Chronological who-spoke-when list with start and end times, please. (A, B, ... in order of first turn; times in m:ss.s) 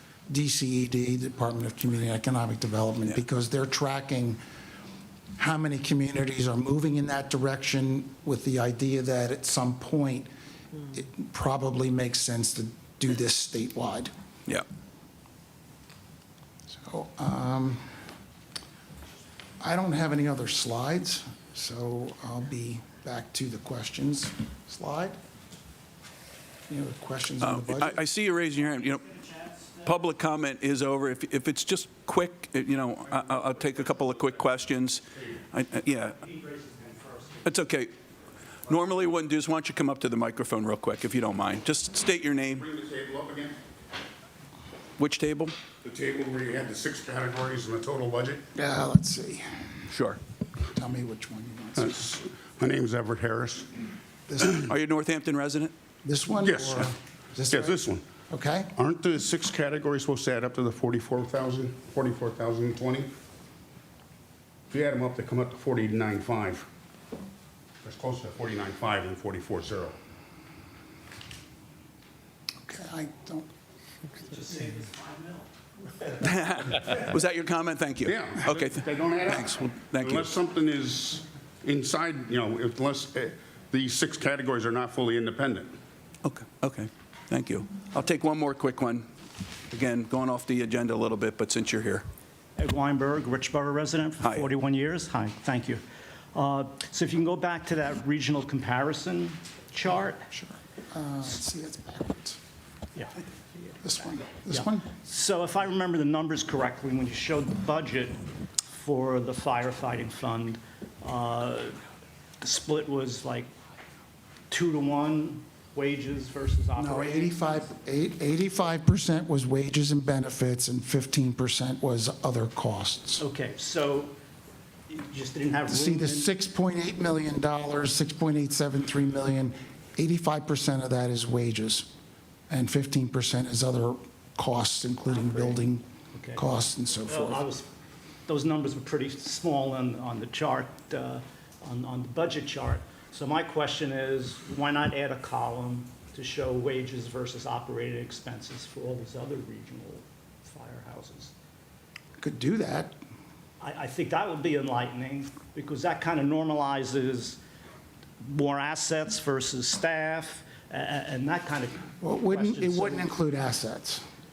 0:00.3-0:04.4 A
0:05.4-0:10.3 A
0:10.9-0:14.1 A
0:16.8-0:17.8 A
0:19.6-0:25.2 A
0:26.7-0:28.0 A
0:27.4-0:36.2 B
0:36.2-0:37.5 C
0:37.4-0:37.9 B
0:38.6-0:42.6 B
0:42.6-0:43.6 D
0:45.0-0:45.5 B
0:45.8-0:48.4 D
0:48.5-0:49.5 A
0:49.9-0:50.2 B
0:50.7-0:52.0 A
0:51.8-0:53.7 D
0:54.3-0:54.7 A
0:54.6-0:55.7 B
0:56.0-0:58.7 A
0:56.5-0:56.8 D
0:57.5-0:58.0 D
0:58.7-1:03.1 D
1:04.7-1:06.7 D
1:07.8-1:09.9 D
1:12.6-1:13.5 A
1:14.3-1:15.4 C
1:16.2-1:20.3 B
1:18.0-1:25.7 D
1:26.2-1:29.0 B
1:29.7-1:32.0 B
1:32.6-1:35.8 C
1:34.2-1:34.5 B
1:36.3-1:40.3 C
1:40.3-1:42.4 A
1:43.8-1:44.9 A
1:44.5-1:51.8 C
1:52.4-1:53.5 C
1:54.5-1:57.4 C
1:56.8-2:03.2 A
2:03.2-2:04.2 C
2:04.9-2:06.3 C
2:05.7-2:11.9 A
2:12.5-2:17.4 A
2:16.1-2:16.5 C
2:17.1-2:17.7 C
2:18.3-2:31.3 C
2:32.2-2:33.0 A
2:33.6-2:37.4 C
2:38.2-2:43.1 C
2:42.0-2:44.0 A